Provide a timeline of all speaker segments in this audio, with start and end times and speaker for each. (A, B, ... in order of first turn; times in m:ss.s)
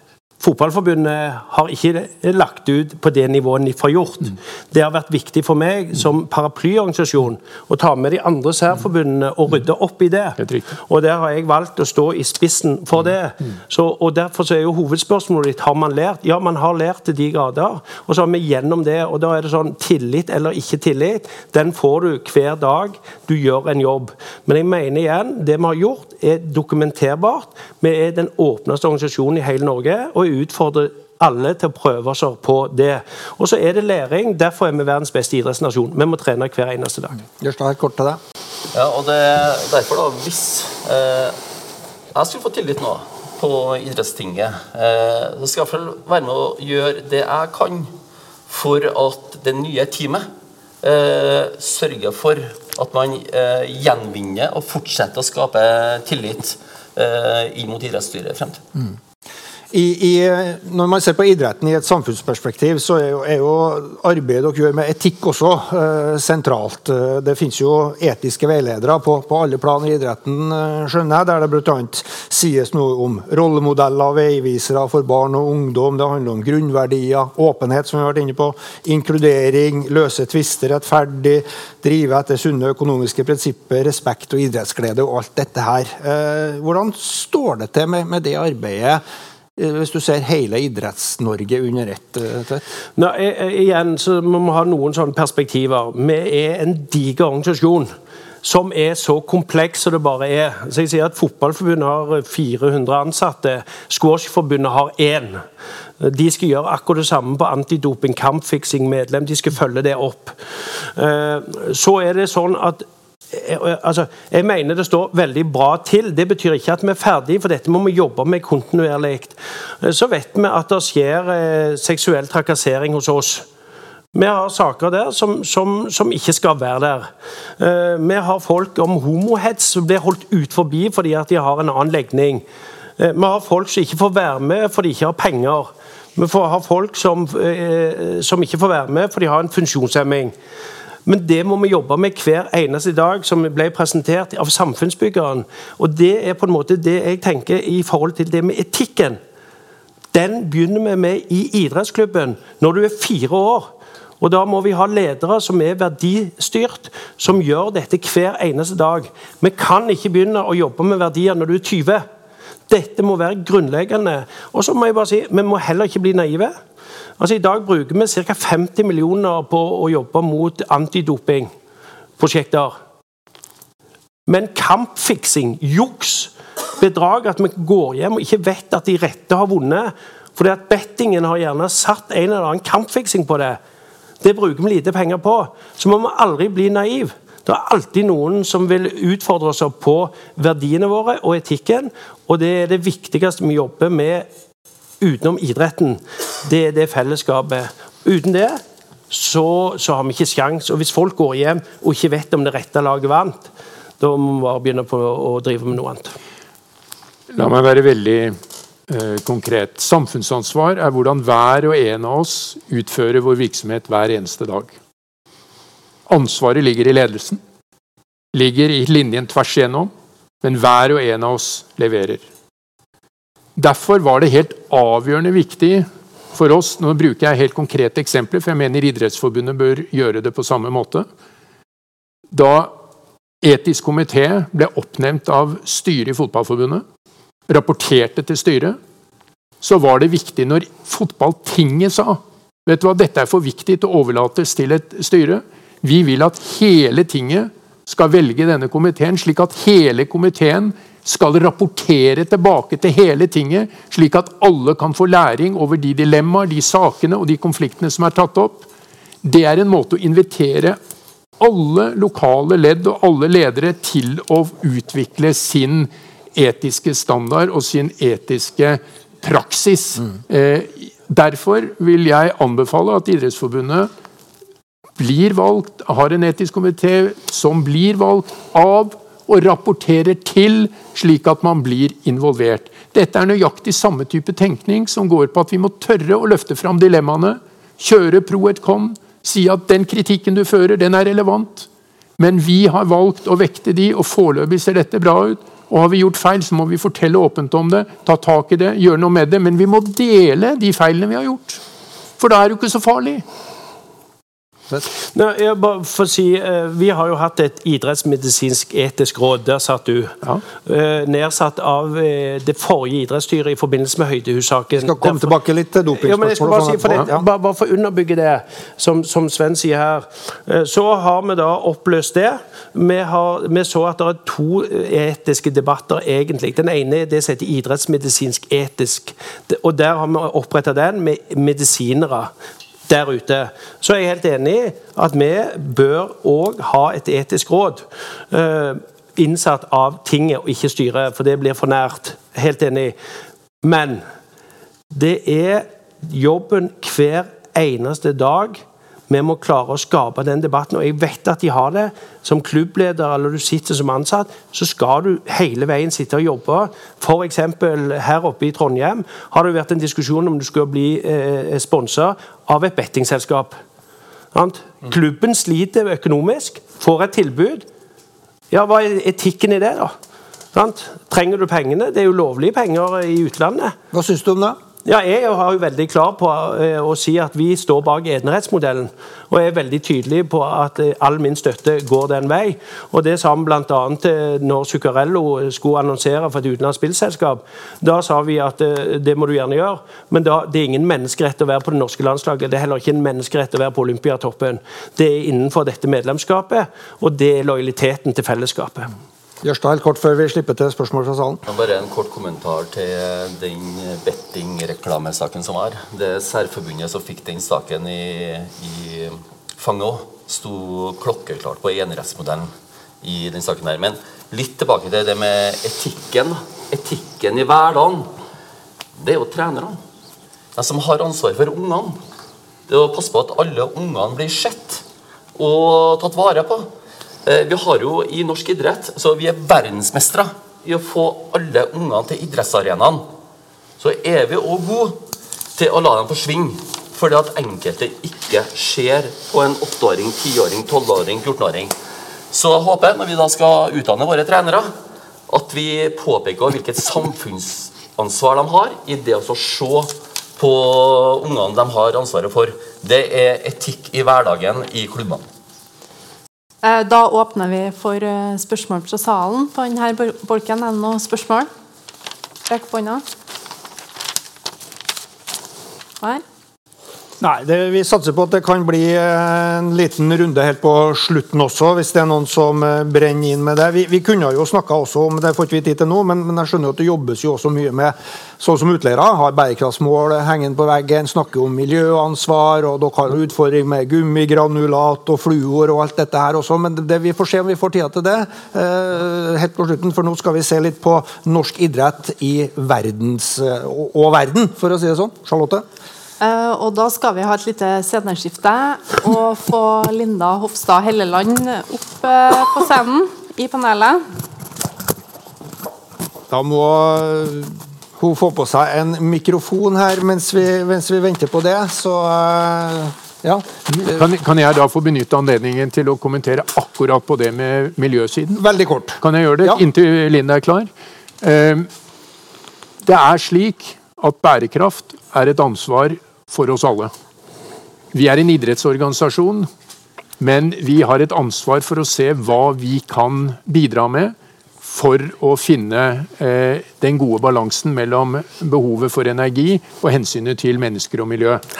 0:00.4-0:37.2 A
0:10.4-0:10.7 B
0:37.4-0:38.2 C
0:38.7-0:41.4 D
0:42.1-0:47.9 D
0:48.5-0:50.3 D
0:50.8-0:58.6 D
0:59.7-1:29.0 C
1:29.6-1:32.6 C
1:33.0-1:37.9 A
1:38.4-1:45.4 A
1:46.0-2:03.4 A
2:04.1-2:12.4 A
2:13.0-2:20.3 A
2:21.0-2:29.2 A
2:30.1-2:42.0 A
2:42.7-2:46.5 A
2:47.2-2:51.5 A
2:52.2-2:52.7 A
2:54.3-3:03.6 A
3:04.2-3:14.3 A
3:15.0-3:26.1 A
3:27.3-3:28.4 B
3:28.9-3:34.8 B
3:36.1-3:37.4 B
3:38.3-3:39.9 B
3:40.4-3:42.2 B
3:43.6-3:51.1 B
3:52.3-3:52.7 B
3:53.4-3:56.8 B
3:57.5-3:58.8 B
3:59.6-4:18.7 B
4:19.2-4:20.8 B
4:21.4-4:33.9 B
4:35.0-5:01.6 B
5:02.2-5:03.2 B
5:05.1-5:15.3 A
5:14.7-5:17.2 C
5:16.0-5:32.3 A
5:32.9-5:42.9 A
5:43.6-5:44.0 A
5:44.9-6:03.6 A
6:04.3-6:07.6 A
6:08.5-6:09.9 A
6:10.5-6:13.7 A
6:13.9-6:14.6 C
6:14.8-6:38.9 A
6:39.4-6:41.4 C
6:41.4-6:58.1 D
6:59.0-6:59.8 D
7:00.6-7:02.0 D
7:02.7-7:04.8 D
7:05.4-7:06.7 D
7:07.2-7:13.1 D
7:13.8-7:15.0 D
7:15.5-7:21.7 D
7:22.3-7:24.7 D
7:25.3-7:35.2 D
7:36.6-7:41.5 E
7:42.5-7:43.0 E
7:47.2-8:15.6 C
8:16.2-8:24.1 E
8:26.3-8:34.0 C
8:33.7-8:38.4 B
8:38.4-8:39.6 C
8:39.0-8:40.7 B
8:41.2-8:41.7 B
8:42.8-8:46.9 B
8:47.9-8:49.5 B
8:50.2-9:01.4 B